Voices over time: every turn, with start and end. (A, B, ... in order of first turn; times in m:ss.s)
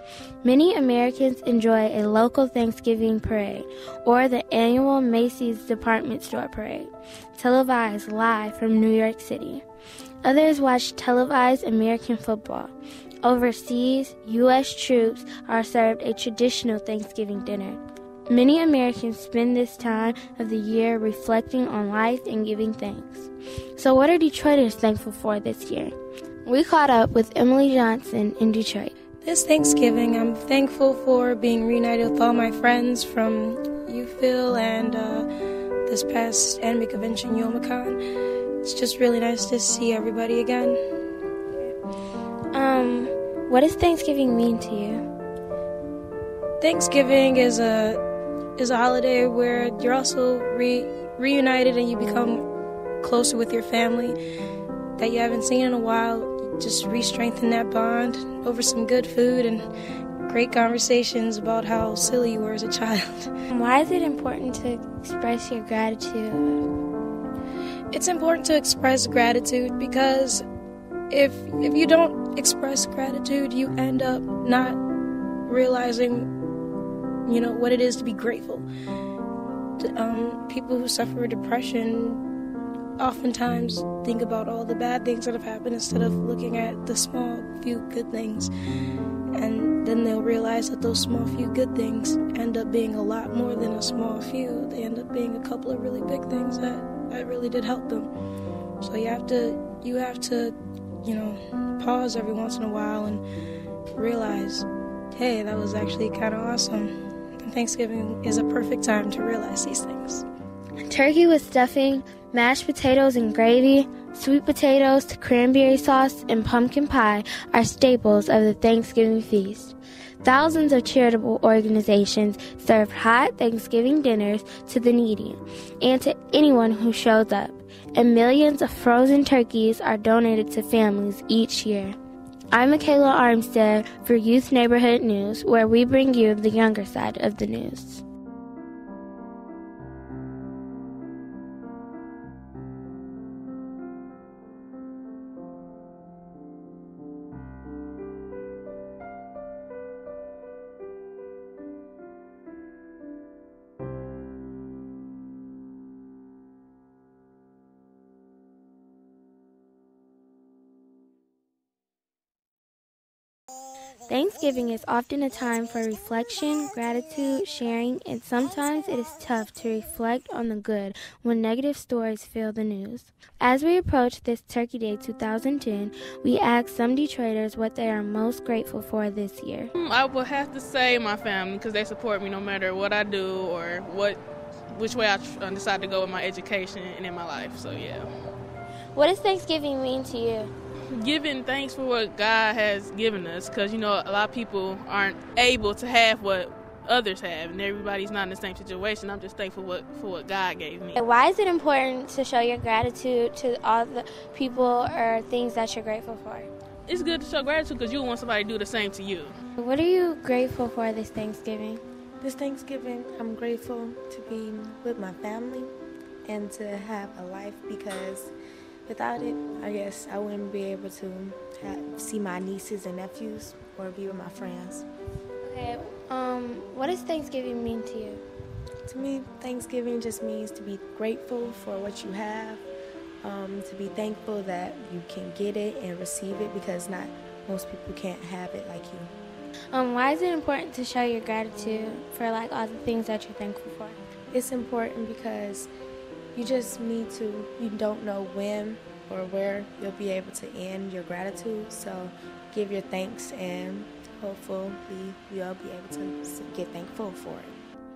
0:00.4-0:09.6 A
0:10.2-0:25.9 A
0:26.4-0:28.9 A
0:29.2-0:35.3 B
0:35.8-0:38.0 B
0:38.6-0:40.8 B
0:42.5-0:45.0 A
0:46.6-0:48.0 B
0:48.6-0:52.4 B
0:53.0-0:54.2 B
0:55.0-0:59.7 B
1:00.2-1:03.3 B
1:03.5-1:06.6 A
1:07.9-1:10.4 B
1:11.1-1:14.8 B
1:15.5-1:16.3 B
1:17.3-1:18.6 B
1:19.8-1:22.2 B
1:23.0-1:28.5 B
1:29.3-1:38.1 B
1:38.8-1:43.2 B
1:43.9-1:50.2 B
1:50.8-2:12.0 A
2:12.5-2:18.0 A
2:44.1-2:59.7 A
2:59.8-3:04.2 C
3:04.7-3:08.1 C
3:08.9-3:10.5 A
3:10.9-3:21.0 C
3:20.9-3:26.5 A
3:26.9-3:29.3 C
3:29.6-3:31.8 A
3:32.2-3:35.7 D
3:36.2-3:38.3 D
3:38.9-3:44.8 D
3:45.4-3:48.2 A
3:48.8-3:52.6 D
3:53.2-3:59.1 D
3:59.7-4:04.0 A
4:04.3-4:05.7 D
4:06.3-4:17.6 D